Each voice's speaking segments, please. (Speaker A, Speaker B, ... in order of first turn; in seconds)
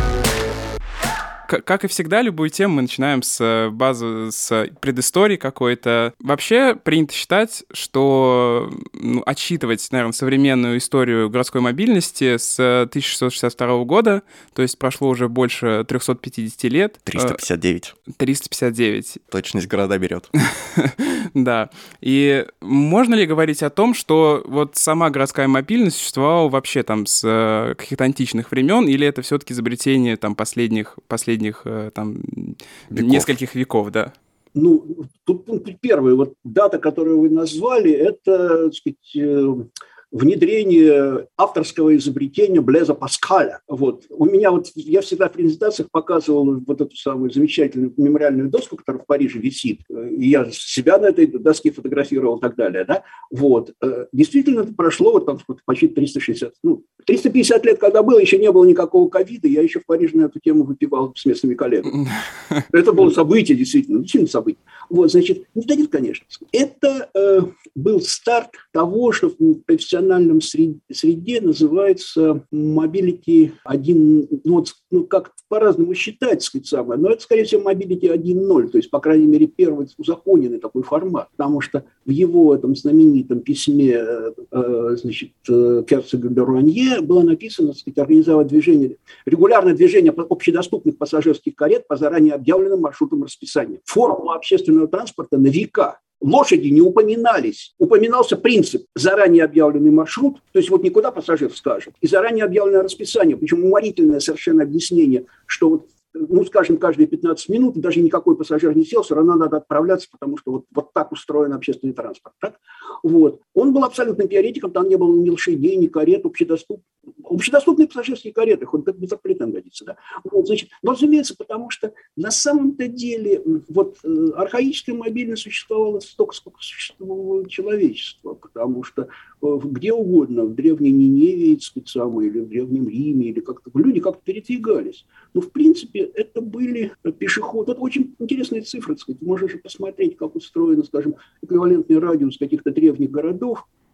Speaker A: 1.5-17.4, 18.1-19.2, 20.5-34.1
Speaker B: 17.1-17.9, 19.3-20.3, 32.9-33.3
Speaker C: 34.5-62.0, 62.7-143.6